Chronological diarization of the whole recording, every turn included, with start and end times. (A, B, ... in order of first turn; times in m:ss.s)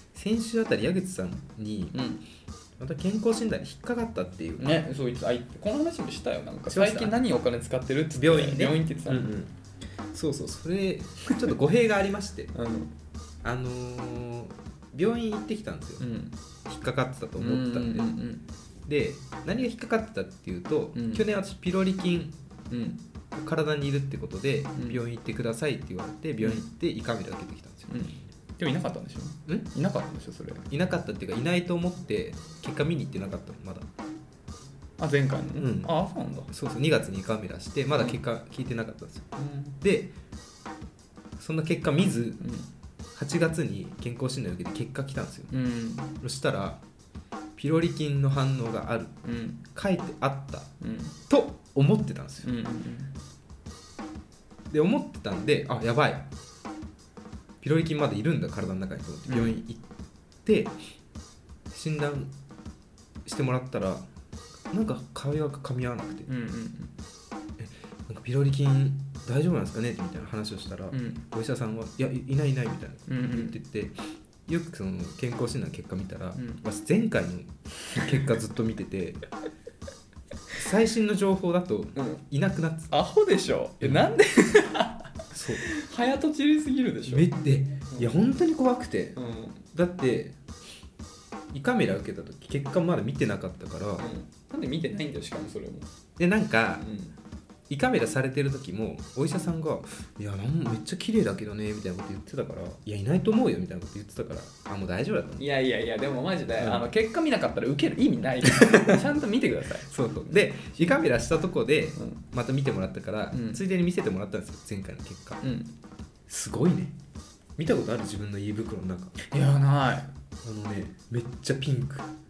0:00.1-0:02.0 A
0:01.9-0:02.2 B
0:02.8-0:04.8 A
0:04.6-0:09.3 B
0:06.7-0:07.2 A
0:08.1-0:09.6 A
0:10.1-0:12.5 A
0:12.5-0:12.9 B
0:13.4-0:16.1 A
0:16.0-0:16.4 B
0:16.6-0:18.1 A
0:17.4-0:18.5 B
0:18.9-0:22.4 A
0:21.0-0:21.3 B
0:22.7-0:23.0 B
0:23.3-0:27.9 A
0:24.8-0:25.0 B
0:26.4-0:26.7 B
0:27.9-0:30.7 B
0:30.7-0:33.9 A
0:35.0-0:36.5 B
0:35.6-0:35.9 A
0:36.5-0:39.3 A
0:39.4-0:39.8 B
0:39.8-0:40.1 A
0:41.4-0:42.4 A
0:42.4-0:42.7 B
0:43.2-0:45.5 A
0:45.5-0:46.2 B
0:46.2-0:46.8 A
0:47.6-0:49.2 A
0:49.2-0:49.6 B
0:49.7-0:50.7 A
0:50.8-0:51.2 B
0:51.3-0:52.5 A
0:52.4-0:53.1 B
0:54.7-0:56.3 A
0:57.6-0:59.8 A
0:59.3-0:59.6 B
1:00.4-1:00.8 A
1:01.7-1:02.3 A
1:03.2-1:04.1 A
1:04.7-1:06.3 A
1:06.3-1:06.9 B
1:07.6-1:19.2 A
1:10.9-1:11.2 B
1:13.1-1:13.6 B
1:16.4-1:16.6 B
1:17.9-1:18.2 B
1:20.5-1:23.0 A
1:22.0-1:22.2 B
1:22.9-1:27.3 B
1:25.3-1:25.7 A
1:27.1-1:29.2 A
1:29.2-1:29.6 B
1:29.7-1:30.4 A
1:31.5-1:34.1 A
1:34.0-1:35.9 B
1:36.2-1:36.9 A
1:36.8-1:37.1 B
1:37.7-1:45.5 A
1:45.4-1:51.0 B
1:46.6-1:46.9 A
1:48.4-1:49.0 A
1:49.9-1:55.4 A
1:52.0-1:52.2 B
1:53.3-1:53.6 B
1:55.4-1:55.7 B
1:56.3-1:57.0 A
1:57.6-1:59.2 A
1:59.3-2:00.1 B
2:00.4-2:02.1 A